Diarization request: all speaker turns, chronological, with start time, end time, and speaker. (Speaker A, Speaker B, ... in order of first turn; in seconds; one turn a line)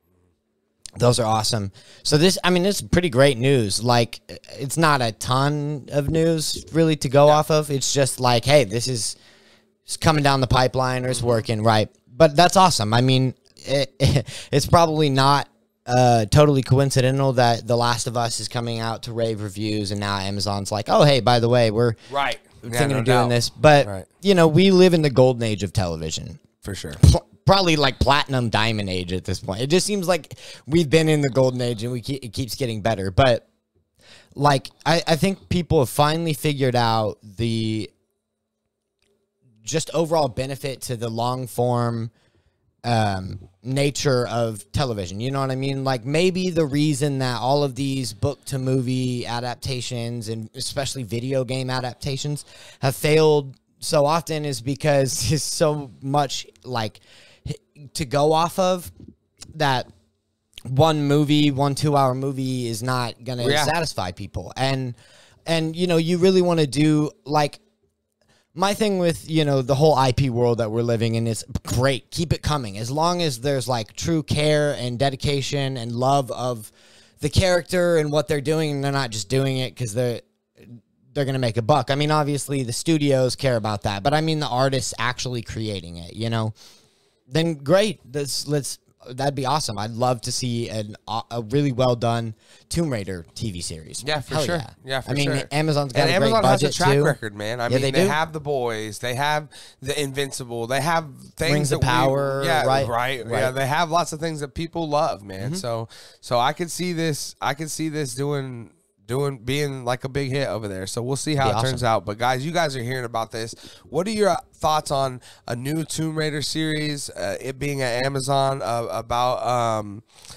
Speaker A: 1.0-9.2
Speaker A: 9.8-22.0
Speaker B: 11.1-11.4
Speaker B: 22.1-24.1
Speaker A: 22.6-26.4
Speaker B: 26.6-27.0
Speaker A: 27.0-33.4
Speaker A: 34.3-37.9
Speaker A: 39.6-42.1
Speaker A: 42.8-58.9
Speaker A: 59.5-59.9
Speaker A: 60.7-65.0
Speaker B: 63.4-63.7
Speaker A: 65.5-67.6
Speaker A: 68.5-86.5
Speaker A: 87.3-97.2
Speaker B: 94.0-120.0
Speaker A: 97.7-98.2
Speaker A: 101.4-103.5
Speaker A: 105.4-105.6
Speaker A: 111.4-111.8